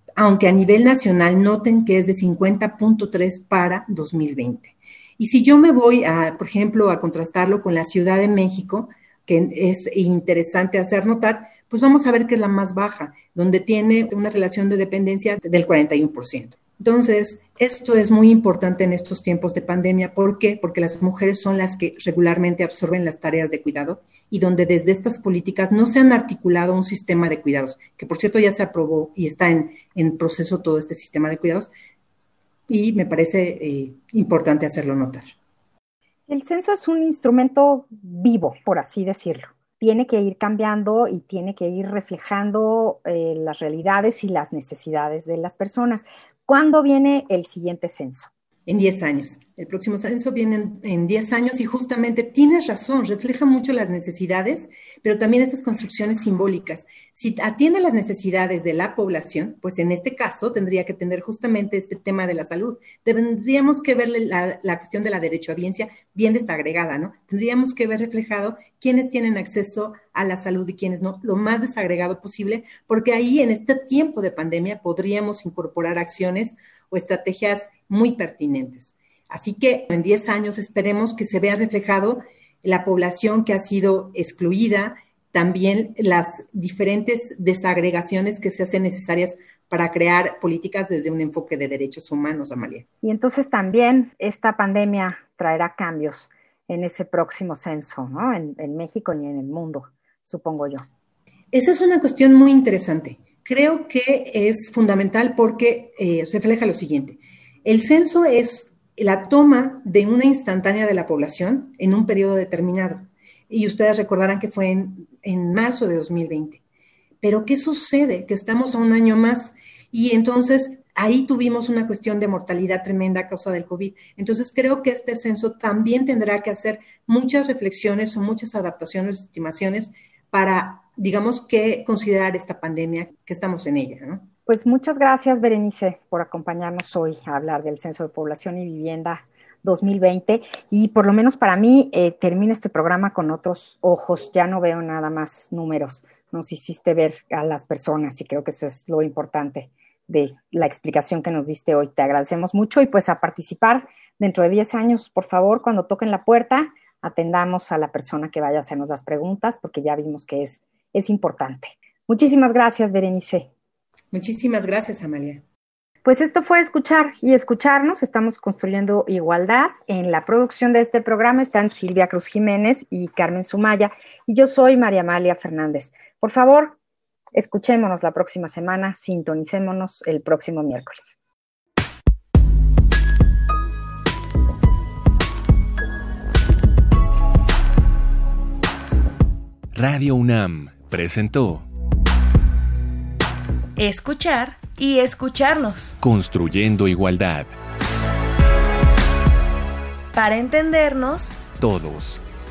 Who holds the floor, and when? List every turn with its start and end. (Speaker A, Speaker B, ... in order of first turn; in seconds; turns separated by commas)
Speaker A: 0.2-31.7, Speaker A: 32.7-35.3, Speaker B: 36.3-48.3, Speaker A: 48.7-92.8, Speaker B: 93.0-100.8, Speaker A: 101.5-116.6, Speaker A: 117.2-134.3, Speaker B: 134.5-163.5, Speaker A: 164.1-165.4, Speaker B: 166.1-176.8, Speaker B: 177.3-181.1, Speaker C: 189.7-191.7, Speaker D: 193.8-196.0, Speaker C: 196.0-197.5, Speaker D: 200.1-201.4, Speaker C: 201.6-202.2